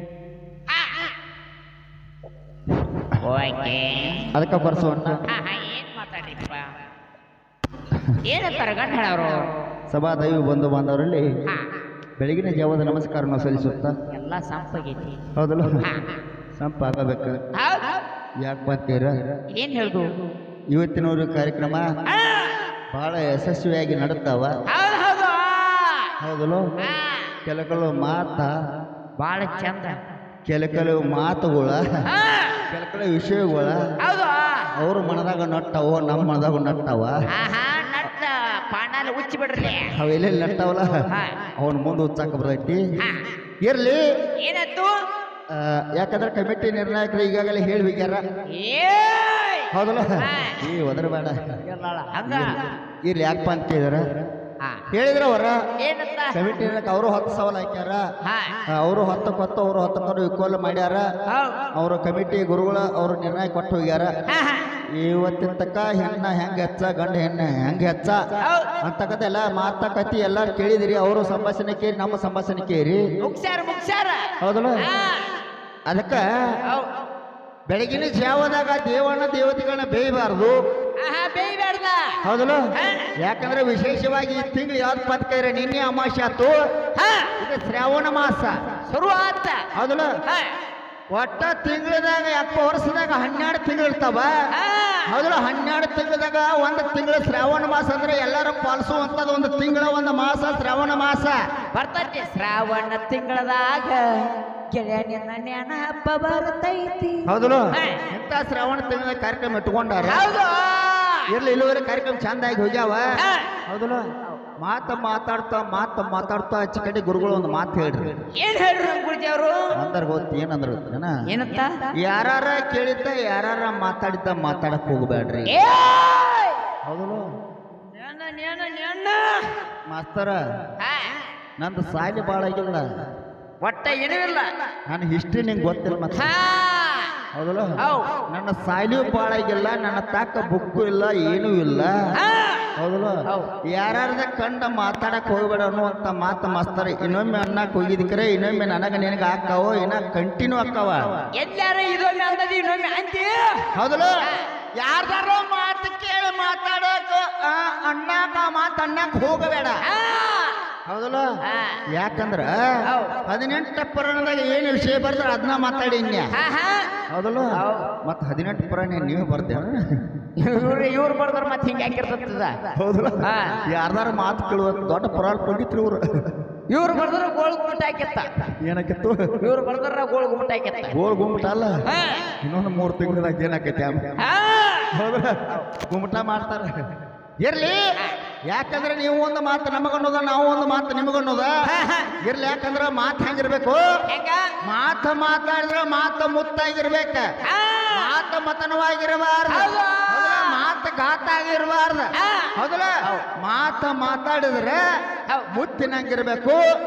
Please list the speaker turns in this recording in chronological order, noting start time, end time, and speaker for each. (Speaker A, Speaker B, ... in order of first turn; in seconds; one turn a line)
Speaker A: 0.7-1.1
Speaker A: 3.1-4.3
Speaker B: 4.3-5.2
Speaker A: 5.3-6.8
Speaker A: 8.2-9.5
Speaker B: 9.9-11.3
Speaker B: 12.2-14.0
Speaker A: 14.1-15.2
Speaker B: 15.3-15.9
Speaker A: 15.8-16.2
Speaker B: 16.6-17.4
Speaker A: 17.5-18.0
Speaker B: 18.4-19.4
Speaker A: 19.5-20.2
Speaker B: 20.7-22.0
Speaker A: 22.1-22.6
Speaker B: 22.9-24.5
Speaker A: 24.7-26.1
Speaker B: 26.2-26.6
Speaker A: 26.8-27.4
Speaker B: 27.4-28.7
Speaker A: 29.2-30.0
Speaker B: 30.4-31.9
Speaker A: 32.1-32.6
Speaker B: 32.7-33.8
Speaker A: 34.0-34.8
Speaker B: 34.7-37.2
Speaker A: 37.3-39.9
Speaker B: 39.9-41.0
Speaker A: 41.1-41.4
Speaker B: 41.5-42.9
Speaker A: 43.0-43.3
Speaker B: 43.6-44.2
Speaker A: 44.4-45.1
Speaker B: 45.5-48.3
Speaker A: 48.5-50.6
Speaker B: 49.7-51.6
Speaker A: 51.8-52.6
Speaker B: 52.2-54.2
Speaker A: 54.6-54.9
Speaker B: 54.9-55.6
Speaker A: 55.8-56.4
Speaker B: 56.3-58.0
Speaker A: 58.2-58.6
Speaker B: 58.7-61.1
Speaker A: 61.3-61.7
Speaker B: 61.7-64.1
Speaker A: 64.3-64.7
Speaker B: 64.9-73.0
Speaker A: 68.4-68.7
Speaker A: 73.2-75.4
Speaker B: 74.4-74.9
Speaker B: 75.8-76.6
Speaker A: 76.6-77.0
Speaker B: 77.7-80.6
Speaker A: 81.0-82.2
Speaker B: 82.2-86.6
Speaker A: 82.7-83.1
Speaker A: 86.9-87.3
Speaker B: 87.4-88.7
Speaker A: 88.8-89.7
Speaker B: 89.7-90.2
Speaker A: 90.2-90.5
Speaker B: 91.1-94.3
Speaker A: 94.5-95.1
Speaker B: 95.1-101.4
Speaker A: 101.7-108.0
Speaker B: 107.2-110.3
Speaker A: 110.0-111.3
Speaker B: 111.3-113.1
Speaker A: 113.2-113.5
Speaker B: 113.7-118.2
Speaker A: 118.3-119.8
Speaker B: 119.7-121.1
Speaker A: 121.3-121.9
Speaker B: 122.0-125.6
Speaker A: 125.5-126.6
Speaker B: 126.8-127.3
Speaker A: 127.8-129.7
Speaker B: 129.8-130.4
Speaker A: 130.8-131.2
Speaker B: 131.6-133.1
Speaker A: 133.6-134.5
Speaker B: 134.9-136.3
Speaker A: 136.1-137.2
Speaker B: 137.3-137.7
Speaker A: 137.8-138.1
Speaker B: 138.3-142.0
Speaker A: 142.1-142.7
Speaker B: 142.8-151.2
Speaker A: 143.3-143.5
Speaker A: 151.3-153.7
Speaker B: 153.7-154.1
Speaker B: 154.7-159.8
Speaker A: 159.8-160.7
Speaker B: 160.8-161.2
Speaker A: 161.4-161.8
Speaker B: 161.9-166.3
Speaker A: 162.8-163.2
Speaker A: 166.3-166.9
Speaker B: 167.1-170.1
Speaker A: 167.5-168.0
Speaker A: 170.4-172.7
Speaker B: 172.7-176.3
Speaker A: 173.2-173.6
Speaker A: 176.7-178.5
Speaker B: 178.6-179.4
Speaker A: 179.4-181.0
Speaker B: 180.9-181.8
Speaker A: 181.8-182.3
Speaker B: 182.4-184.2
Speaker A: 184.2-184.9
Speaker B: 184.9-191.6
Speaker A: 191.6-192.1
Speaker B: 192.2-193.9
Speaker A: 194.1-194.5
Speaker B: 194.6-197.3
Speaker A: 197.4-198.1
Speaker B: 197.9-204.8
Speaker A: 199.5-200.6
Speaker A: 202.1-203.2
Speaker B: 205.5-206.6